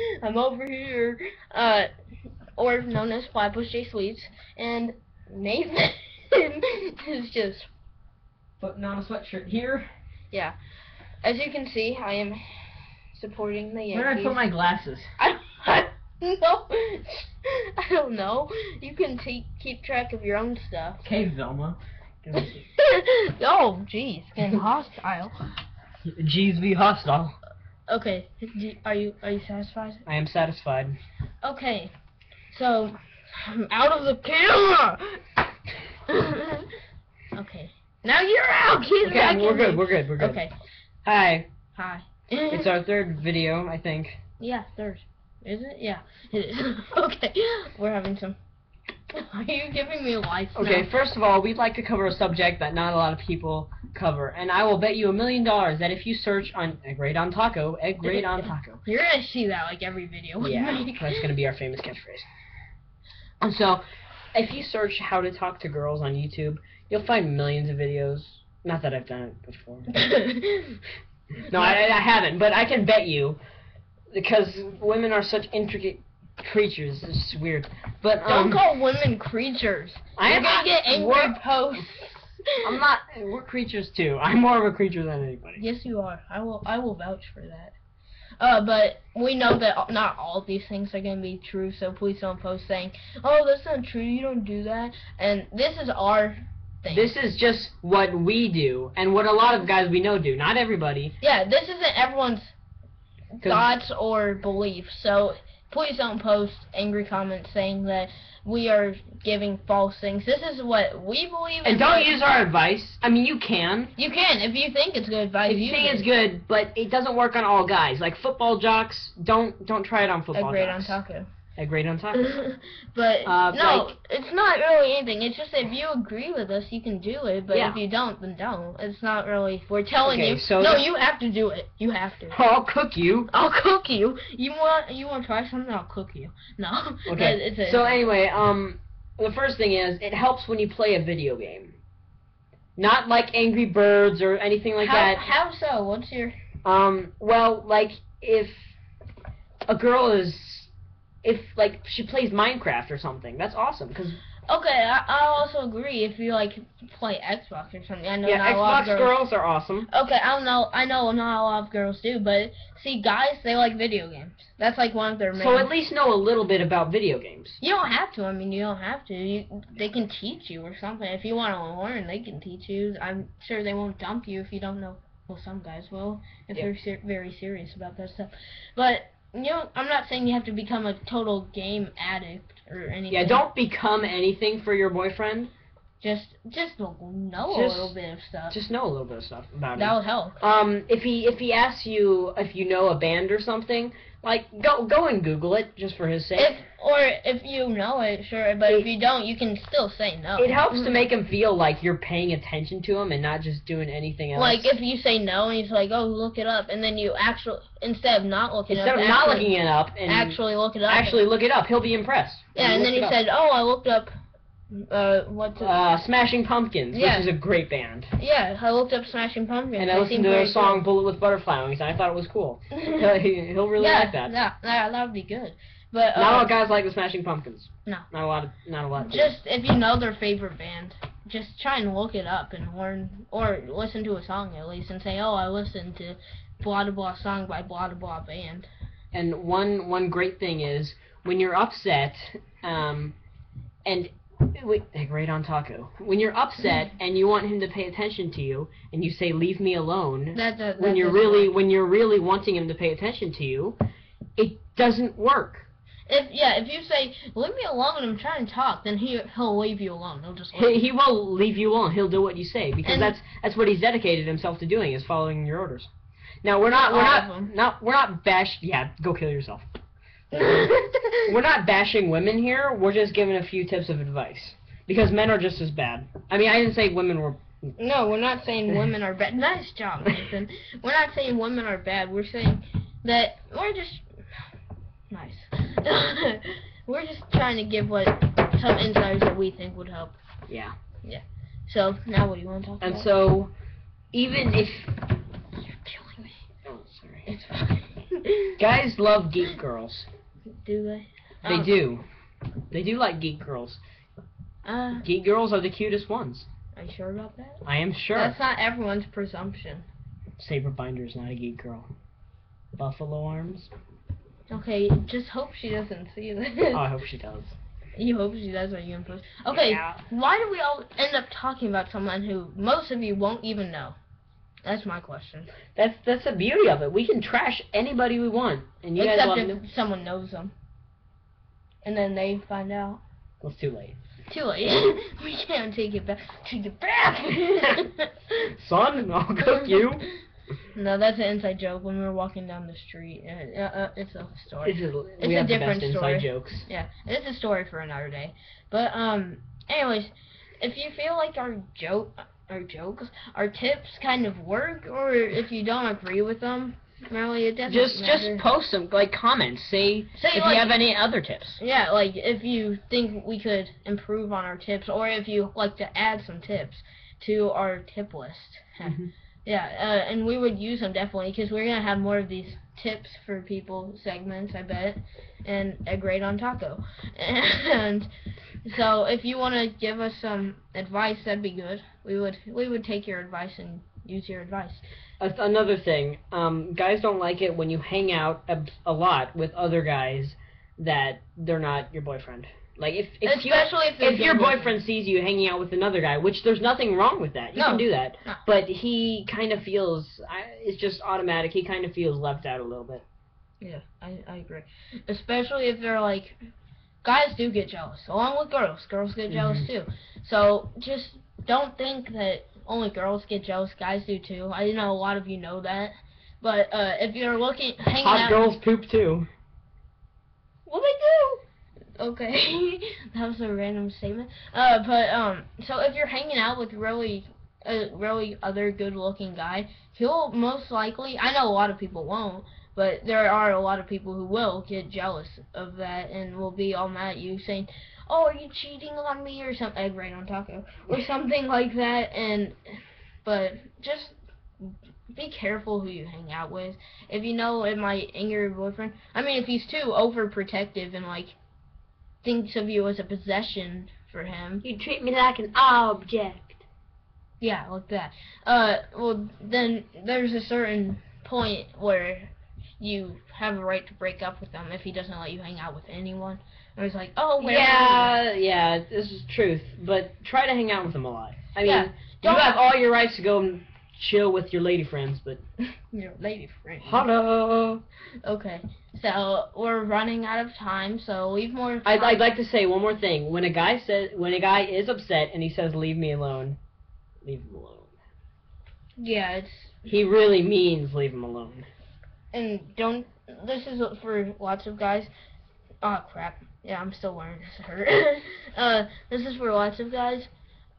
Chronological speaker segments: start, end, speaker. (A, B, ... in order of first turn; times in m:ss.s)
0:00.2-0:01.9 A
0:02.6-0:07.7 A
0:08.6-0:09.9 B
0:11.2-0:14.4 A
0:13.9-0:15.1 B
0:15.2-0:21.0 A
0:21.0-0:22.6 B
0:22.4-0:25.3 A
0:26.1-0:27.4 B
0:27.9-0:30.0 A
0:30.1-0:31.0 B
0:31.4-0:31.9 A
0:32.5-0:35.2 A
0:36.1-0:36.7 A
0:37.3-0:40.5 A
0:39.0-0:40.4 B
0:41.0-0:41.5 B
0:41.7-0:42.7 A
0:42.5-0:44.2 B
0:44.4-0:48.4 A
0:49.1-0:50.9 A
0:50.6-0:58.8 B
0:58.1-1:01.3 A
1:00.4-1:02.3 B
1:03.4-1:03.8 B
1:04.3-1:09.9 B
1:09.9-1:10.8 A
1:11.5-1:13.4 B
1:14.1-1:18.6 B
1:18.3-1:22.6 A
1:20.2-1:21.4 B
1:22.6-1:25.6 B
1:25.6-1:27.8 A
1:28.4-1:37.1 A
1:36.9-1:41.2 B
1:41.2-1:42.5 A
1:43.4-1:52.2 A
1:43.4-1:43.7 B
1:51.6-1:53.9 B
1:54.0-1:56.1 A
1:55.5-2:01.0 B
2:00.3-2:01.3 A
2:01.6-2:02.2 B
2:02.1-2:12.4 A
2:03.2-2:03.9 B
2:07.5-2:07.8 B
2:10.0-2:10.9 B
2:12.3-2:13.3 B
2:13.3-2:18.0 A
2:17.1-2:21.8 B
2:22.8-2:25.2 B
2:24.8-2:26.4 A
2:26.6-2:28.7 B
2:29.7-2:30.7 B
2:31.2-2:34.2 B
2:34.5-2:39.2 A
2:38.2-2:39.9 B
2:39.9-2:45.7 A
2:45.4-2:47.6 B
2:47.6-3:03.4 A
3:03.1-3:05.5 B
3:06.0-3:08.6 A
3:07.5-3:07.9 B
3:08.5-3:16.6 B
3:09.8-3:10.4 A
3:16.4-3:21.0 A
3:20.4-3:24.7 B
3:24.3-3:29.5 A
3:28.7-3:33.2 B
3:30.0-3:31.2 A
3:32.5-3:34.1 A
3:34.7-3:35.7 A
3:35.6-3:38.1 B
3:36.9-3:37.3 A
3:38.2-3:40.8 A
3:39.8-3:44.4 B
3:42.7-3:43.1 A
3:43.8-3:46.5 A
3:46.2-3:49.4 B
3:49.0-3:58.7 A
3:59.1-4:03.2 B
4:03.8-4:13.8 B
4:10.3-4:11.5 A
4:14.4-4:15.7 B
4:16.1-4:20.8 A
4:20.6-4:25.9 B
4:22.8-4:23.2 A
4:26.4-4:29.6 B
4:26.7-4:27.5 A
4:30.3-4:31.3 A
4:30.4-4:30.7 B
4:31.3-4:37.7 B
4:37.8-4:44.1 A
4:45.1-4:50.2 A
4:50.5-4:50.8 B
4:51.0-4:53.1 A
4:52.8-4:53.5 B
4:54.1-4:55.1 B
4:55.8-4:56.3 A
4:56.6-4:57.3 B
4:57.3-4:58.6 A
4:58.6-5:00.1 B
5:00.6-5:01.7 A
5:01.5-5:02.0 B
5:02.7-5:03.8 B
5:04.6-5:05.1 A
5:05.0-5:06.5 B
5:06.8-5:07.6 A
5:07.6-5:08.4 B
5:08.1-5:09.9 A
5:10.4-5:11.9 B
5:12.8-5:13.7 B
5:14.5-5:16.8 A
5:16.7-5:17.6 B
5:18.0-5:24.0 A
5:19.5-5:20.0 B
5:24.6-5:25.5 A
5:25.8-5:29.6 B
5:29.0-5:30.5 A
5:31.8-5:33.0 A
5:33.4-5:34.0 B
5:34.3-5:38.2 A
5:38.4-5:40.1 B
5:40.7-5:58.5 A
5:44.6-5:46.7 B
5:57.7-6:01.6 B
6:00.2-6:00.8 A
6:01.6-6:18.1 A
6:08.8-6:09.1 B
6:18.6-6:24.8 A
6:25.2-6:43.0 B
6:33.2-6:34.7 A
6:37.6-6:38.4 A
6:43.6-6:46.4 A
6:47.0-6:58.6 A
6:49.3-6:49.7 B
6:58.0-6:59.3 B
7:00.7-7:01.4 B
7:02.0-7:22.6 A
7:23.2-7:31.3 A
7:32.2-7:34.6 A
7:34.6-7:36.6 B
7:37.4-7:48.2 A
7:47.4-7:55.4 B
7:51.6-7:52.6 A
7:55.9-7:57.1 A
7:56.8-7:57.8 B
7:58.2-8:02.2 A
8:01.8-8:06.6 B
8:07.2-8:07.9 B
8:09.0-8:09.8 A
8:09.8-8:11.7 B
8:12.3-8:15.1 A
8:15.8-8:20.3 A